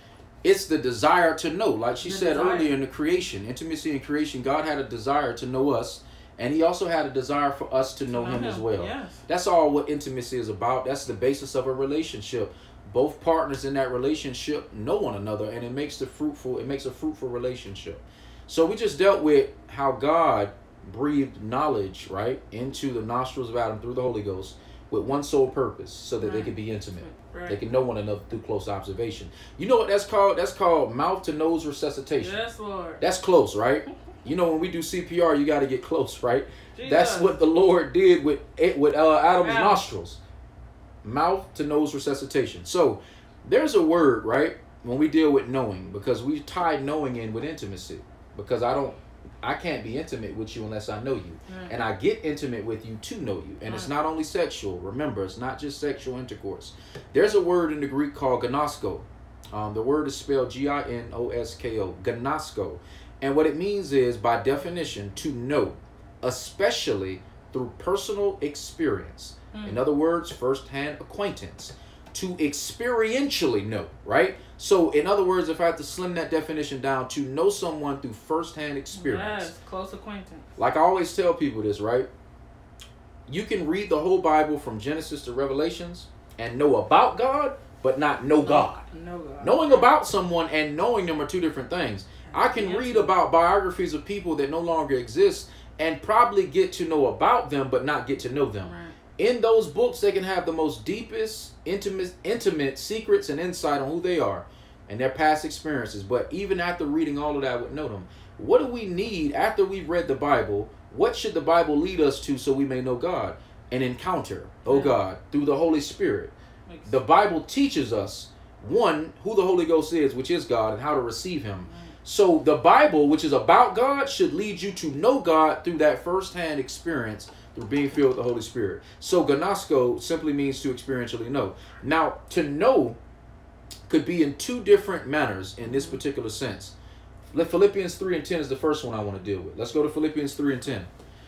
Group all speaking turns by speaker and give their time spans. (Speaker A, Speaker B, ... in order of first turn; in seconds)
Speaker A: 0.4-32.4, 33.0-40.2, 41.0-79.5, 80.6-82.1, 83.3-88.8, 89.4-116.3, 116.9-133.0, 133.9-136.7, 137.3-140.9
Speaker B: 2.0-2.7, 8.1-9.2, 26.2-27.6, 32.2-33.0, 36.7-37.3, 39.4-39.8, 51.5-51.8, 53.6-53.9, 69.5-69.8, 78.9-80.6, 88.4-89.9, 92.2-93.1, 98.6-98.9, 114.6-115.0, 116.7-116.9, 121.6-121.9, 135.6-136.0